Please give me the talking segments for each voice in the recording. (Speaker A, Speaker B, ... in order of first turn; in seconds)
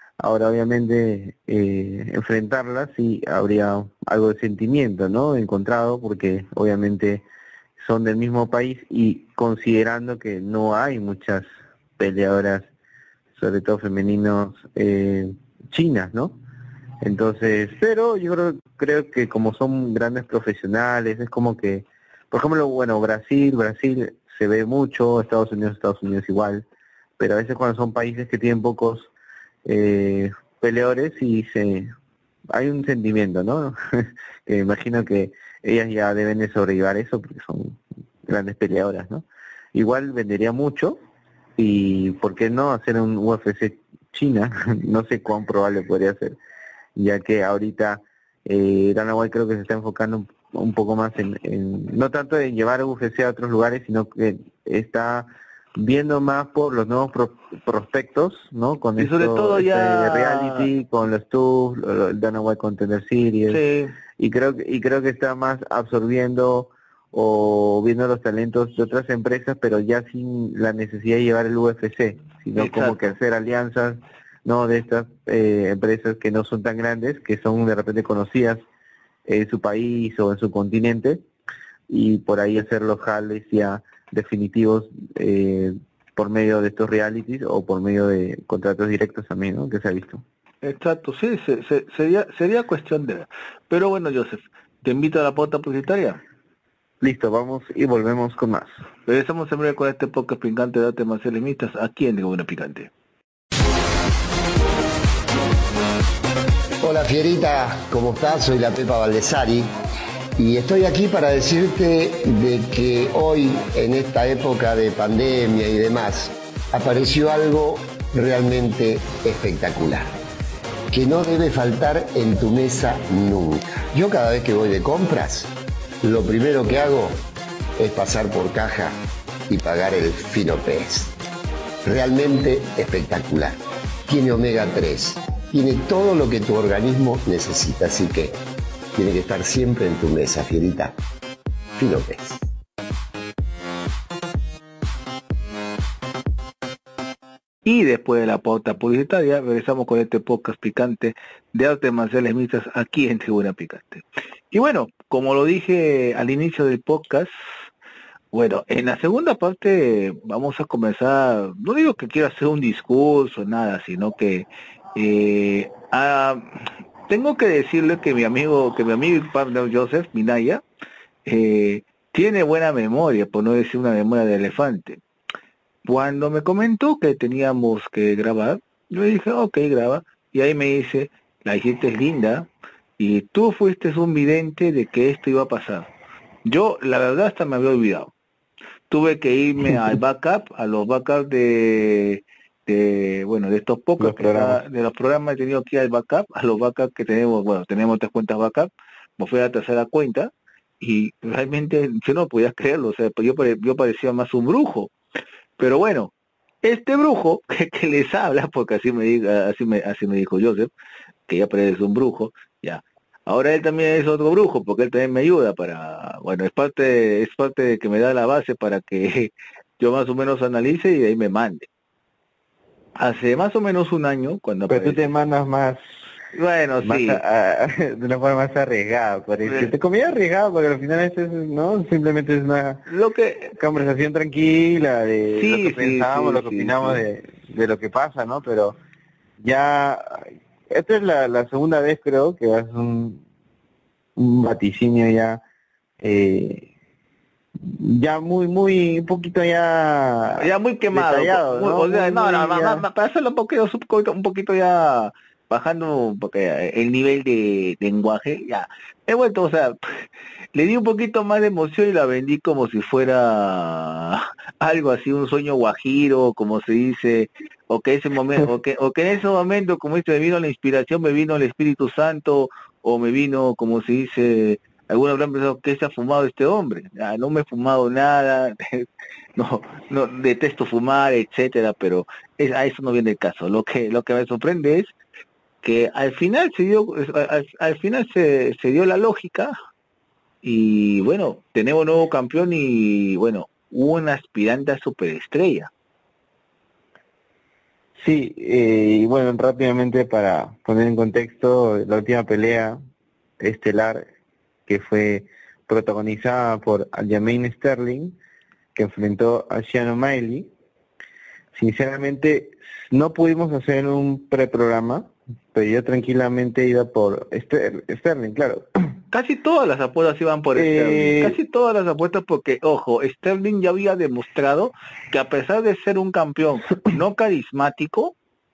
Speaker A: 0.2-7.2, 7.8-11.5, 12.0-12.7, 13.3-16.4, 17.0-26.6, 27.2-29.1, 29.6-31.9, 32.5-41.0, 41.6-46.4, 47.0-63.6, 64.2-78.6, 79.3-81.2, 81.9-90.2, 97.0-98.8, 194.0-194.6, 224.7-225.8, 226.8-232.8, 233.5-238.8, 239.4-243.2, 244.2-245.4, 246.0-246.7, 247.6-252.9, 298.0-302.8, 303.4-304.1, 304.7-308.2, 308.8-310.5, 311.6-318.7, 320.6-321.4
Speaker B: 59.0-60.7, 63.5-64.0, 72.6-73.0, 90.6-96.2, 99.1-102.9, 147.7-157.3, 158.3-166.6, 167.1-170.6, 171.2-175.0, 175.8-185.9, 186.5-188.1, 188.9-204.9, 205.6-206.1, 206.6-210.7, 211.3-221.7, 223.0-225.0, 226.3-227.2, 229.4-229.7, 232.9-233.6, 235.3-237.0, 250.4-278.9, 279.4-284.9, 285.6-289.5, 290.4-295.7, 319.1-328.1
Speaker C: 106.8-109.7, 110.4-120.1, 120.9-127.2, 127.8-131.1, 131.8-138.4, 138.9-141.0, 141.8-142.4